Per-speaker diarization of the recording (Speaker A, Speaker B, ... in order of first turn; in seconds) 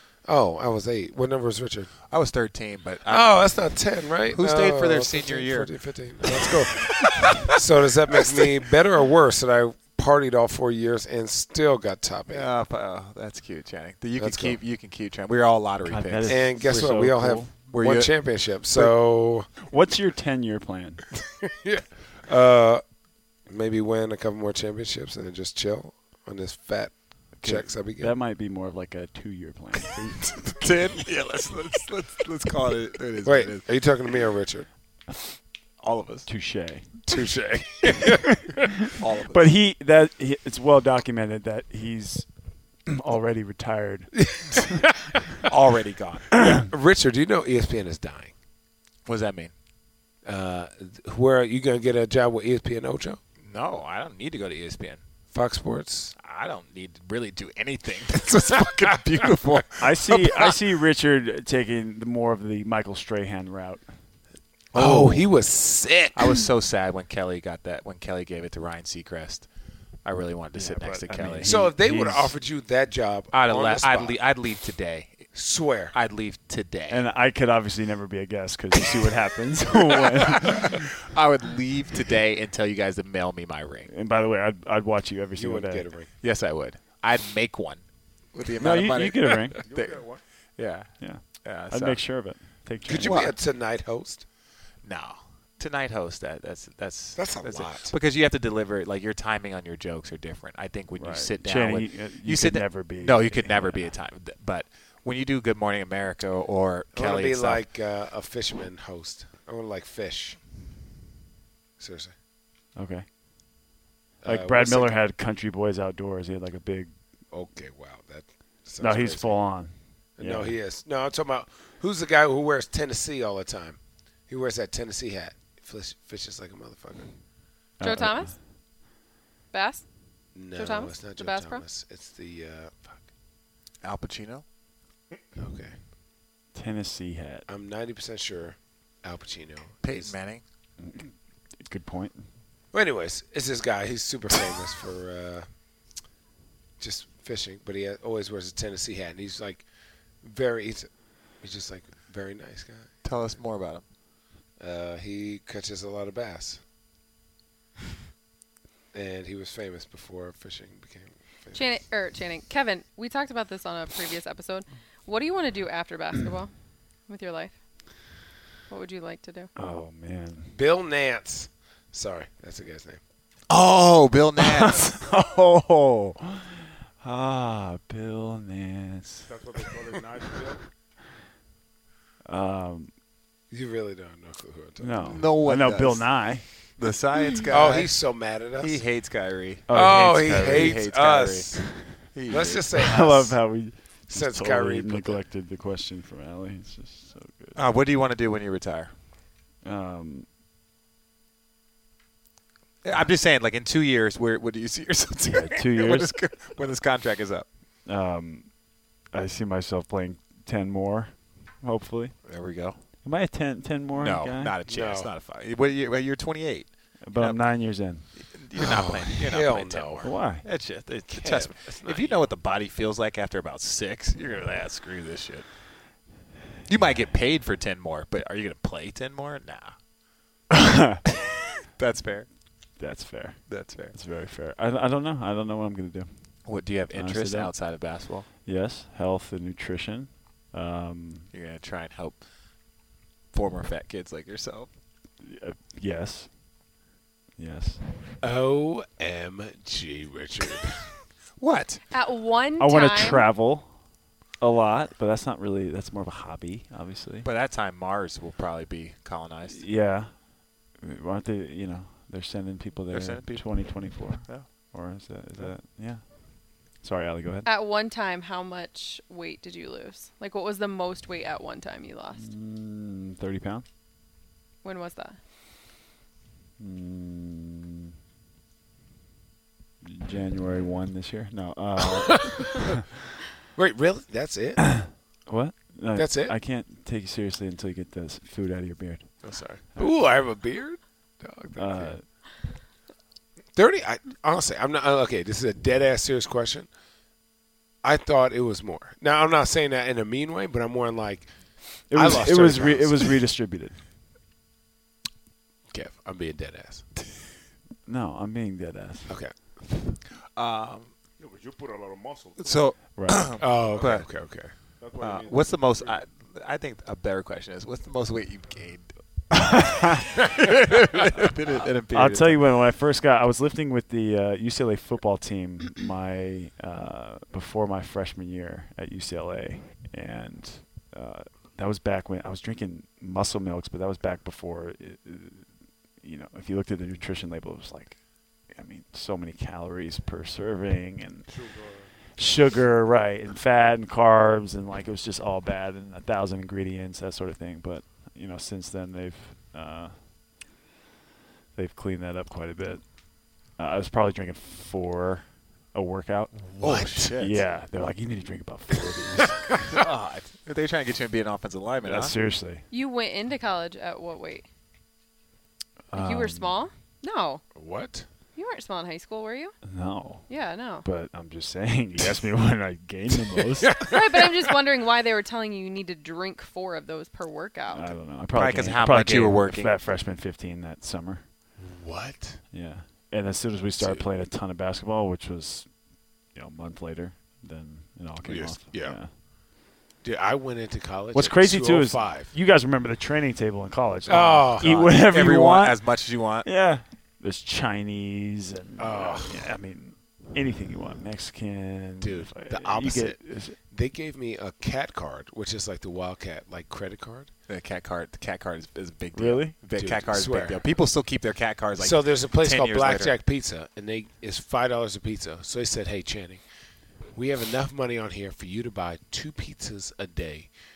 Speaker A: 0.2-1.9, 3.0-12.5, 14.2-14.6, 16.3-19.5, 21.3-22.8, 23.4-28.1, 33.2-34.7, 37.1-38.4, 44.2-44.9, 46.3-48.3, 50.2-53.2, 55.3-56.1, 58.3-58.9, 64.7-66.4, 71.4-74.2, 75.3-75.9, 85.3-86.1, 92.8-94.2, 97.2-97.9, 106.9-110.4, 111.8-112.1, 114.2-114.9, 117.3-119.3, 120.2-127.1, 130.3-133.0, 135.3-135.8, 137.5-140.1, 142.7-145.4, 146.8-149.6, 150.2-152.9, 154.6-156.6, 158.9-161.6, 170.5-173.0, 183.5-185.2, 187.5-188.8, 189.7-191.7, 192.3-193.4, 194.1-195.2, 214.7-215.1, 218.6-220.1, 221.1-222.2, 248.2-250.8, 282.0-282.6, 283.5-284.8, 285.9-286.4, 289.2-291.9, 293.5-296.7, 297.8-303.2, 305.7-306.9, 309.1-309.4, 313.4-314.5, 356.6-357.1, 367.5-368.1, 373.6-374.5, 381.6-382.4, 383.8-384.1, 388.2-389.0, 390.0-392.3, 394.1-394.8, 398.8-399.5, 402.0-403.2, 403.7-407.3, 409.8-410.6, 411.7-416.4, 417.1-420.5
Speaker B: 2.1-3.6, 4.3-7.5, 12.3-16.6, 17.7-18.1, 30.5-33.8, 35.8-36.3, 38.9-39.5, 45.4-46.4, 49.0-49.5, 53.4-55.0, 56.2-60.5, 66.1-69.5, 70.0-71.5, 73.3-75.3, 75.9-77.0, 80.2-83.9, 86.2-87.8, 88.3-92.0, 93.0-93.3, 94.8-107.6, 133.8-134.4, 139.8-140.4, 153.0-153.8, 173.5-174.9, 185.0-192.7, 197.5-198.9, 202.8-207.4, 212.2-212.8, 213.9-225.5, 226.7-229.8, 231.8-232.3, 233.5-233.9, 236.4-238.3, 241.3-242.2, 243.3-244.7, 251.4-251.8, 257.2-259.6, 262.9-264.5, 310.3-310.9, 312.4-322.4, 356.4-357.4, 359.5-362.1, 378.3-379.7, 394.6-396.5, 407.5-413.2
Speaker C: 15.8-17.5, 19.6-21.0, 27.4-30.2, 36.2-36.9, 38.6-42.3, 42.9-44.7, 59.8-63.9, 64.7-65.3, 70.5-72.3, 76.9-80.9, 83.9-85.9, 88.6-89.6, 91.0-93.3, 101.0-103.9, 112.8-113.0, 114.2-116.9, 118.8-120.5, 127.8-128.3, 136.5-137.5, 140.8-142.2, 169.6-170.5, 174.4-179.3, 182.3-182.9, 184.8-186.4, 189.7-190.8, 192.8-197.6, 199.6-200.2, 205.3-206.1, 207.8-212.2, 213.0-214.5, 217.0-218.1, 220.0-220.4, 230.5-231.0, 232.8-236.1, 236.9-237.6, 238.4-241.3, 245.2-246.3, 247.4-247.8, 252.6-253.7, 254.4-257.2, 259.5-267.5, 272.1-273.6, 276.6-277.9, 279.8-282.8, 284.6-289.9, 291.6-292.0, 301.9-303.8, 307.9-309.1, 312.9-313.4, 319.4-320.0, 321.9-341.4, 342.1-350.0, 351.5-352.9, 353.5-356.5, 357.1-359.5, 361.8-362.6, 365.9-366.6, 369.6-370.3, 370.8-373.8, 377.7-381.2, 382.5-389.1, 391.1-395.8, 396.4-403.6, 409.1-409.5
Speaker D: 89.6-90.2, 179.3-180.6, 311.2-312.8, 313.4-314.0, 314.8-316.0, 341.3-341.9
Speaker E: 127.8-128.3, 129.5-129.9, 130.5-131.6, 161.5-166.5, 167.1-167.5, 168.7-169.5, 251.9-253.2, 267.4-272.2, 274.6-275.2, 362.7-364.4, 365.9-367.4, 368.3-369.6, 370.3-370.8, 373.8-377.9